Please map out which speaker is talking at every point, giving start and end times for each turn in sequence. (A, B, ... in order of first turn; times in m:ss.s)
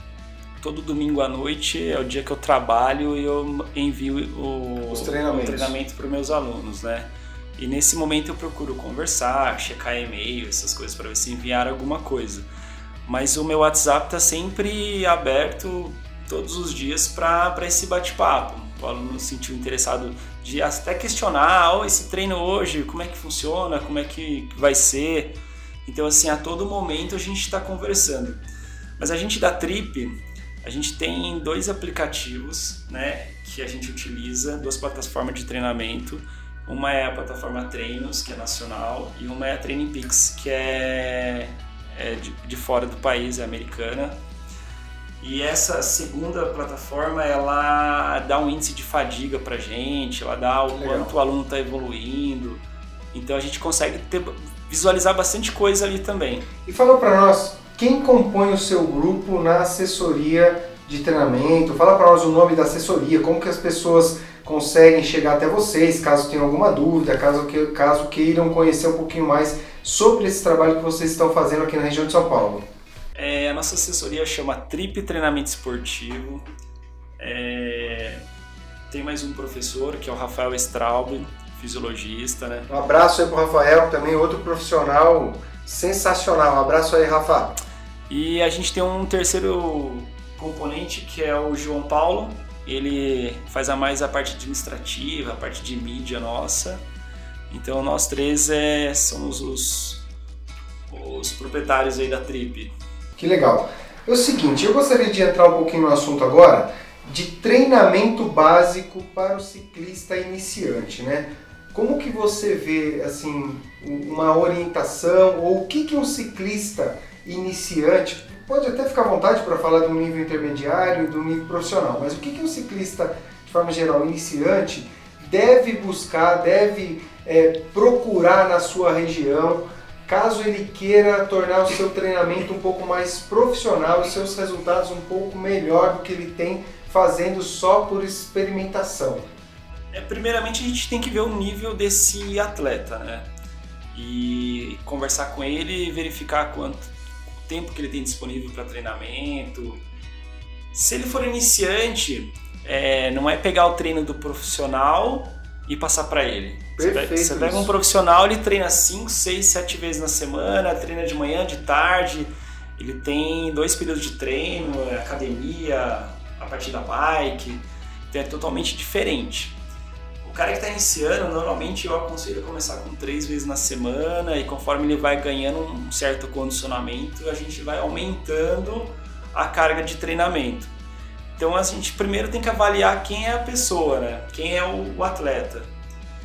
0:00.6-0:12.5 A
0:04.9-0:05.8 B
0:13.1-0:28.4 A
0:29.0-0:44.2 A
0:45.2-0:52.6 A
0:50.7-0:51.2 B
0:53.1-0:56.5 A
0:56.7-1:12.6 B
1:13.2-1:16.4 A
1:17.2-1:18.2 A
1:18.9-1:22.7 A
1:22.7-1:27.6 B
1:28.1-1:36.8 A
1:37.5-1:40.0 A
1:40.9-1:42.7 A
1:43.2-2:19.3 B
2:19.9-2:23.3 A
2:23.9-2:26.9 A
2:27.4-2:29.8 A
2:30.7-2:49.6 A
2:36.8-2:37.8 B
2:50.2-3:00.7 A
3:01.4-3:05.7 A